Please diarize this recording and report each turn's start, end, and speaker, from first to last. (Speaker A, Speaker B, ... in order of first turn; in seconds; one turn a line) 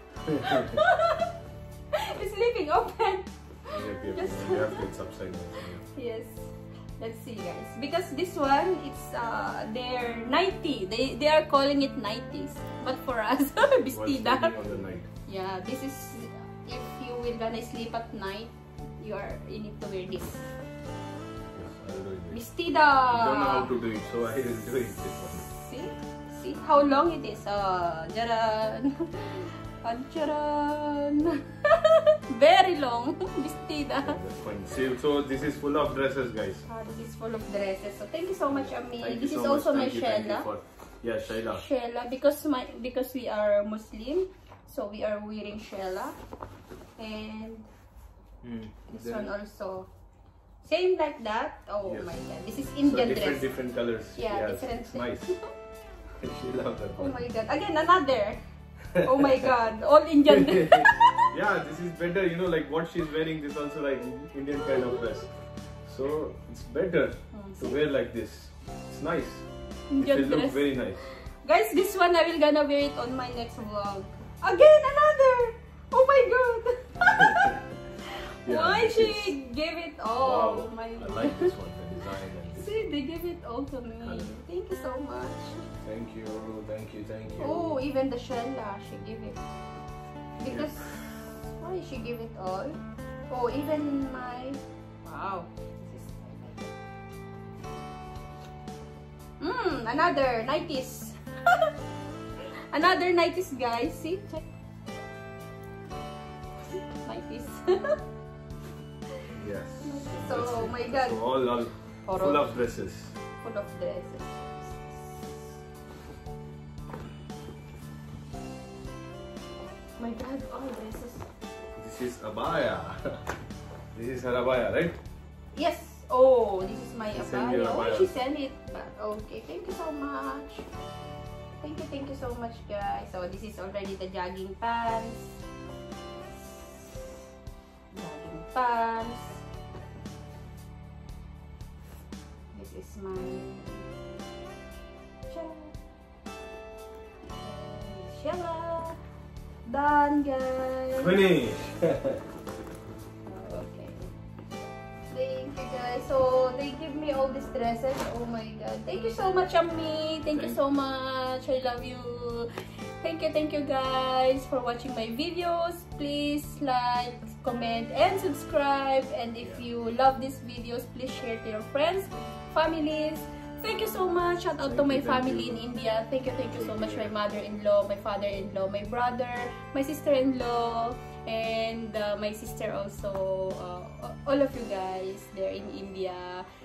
Speaker A: 0.3-0.8
Speaker B: 0.3-1.3
Speaker B: 1.9-4.9
Speaker A: 3.7-5.8
Speaker B: 5.9-14.6
Speaker A: 13.9-15.1
Speaker B: 15.3-20.5
Speaker A: 21.5-22.4
Speaker B: 22.3-23.7
Speaker A: 23.1-25.5
Speaker B: 25.3-34.2
Speaker A: 34.0-36.7
Speaker B: 36.7-40.5
Speaker A: 38.6-41.6
Speaker B: 41.5-46.1
Speaker B: 47.0-47.7
Speaker A: 48.4-49.3
Speaker B: 48.9-49.9
Speaker B: 50.6-53.5
Speaker A: 51.8-52.1
Speaker A: 52.8-55.4
Speaker B: 54.1-55.4
Speaker A: 56.2-57.2
Speaker B: 57.0-58.4
Speaker A: 58.9-59.5
Speaker B: 58.9-61.3
Speaker A: 60.3-65.3
Speaker A: 65.8-69.5
Speaker B: 67.3-67.8
Speaker B: 69.9-81.5
Speaker A: 70.0-71.0
Speaker A: 77.3-77.6
Speaker A: 78.5-79.4
Speaker A: 80.2-82.8
Speaker B: 82.5-85.7
Speaker A: 84.0-84.3
Speaker A: 85.8-87.8
Speaker B: 87.4-89.4
Speaker B: 90.4-96.7
Speaker A: 90.4-90.9
Speaker B: 99.4-101.7
Speaker B: 102.7-104.4
Speaker B: 107.0-108.0
Speaker A: 109.3-113.2
Speaker B: 109.8-111.2
Speaker B: 112.0-112.6
Speaker B: 113.4-115.5
Speaker B: 120.0-121.3
Speaker A: 121.8-123.2
Speaker A: 123.9-125.0
Speaker B: 125.5-130.7
Speaker A: 127.1-128.2
Speaker B: 131.6-135.4
Speaker B: 136.4-137.0
Speaker B: 137.9-139.4
Speaker B: 142.5-143.9
Speaker B: 145.3-145.8
Speaker B: 147.4-149.0
Speaker B: 149.7-151.2
Speaker A: 151.0-152.2
Speaker B: 153.2-154.1
Speaker B: 155.1-186.5
Speaker A: 160.3-160.6
Speaker A: 174.6-175.6
Speaker A: 176.5-177.1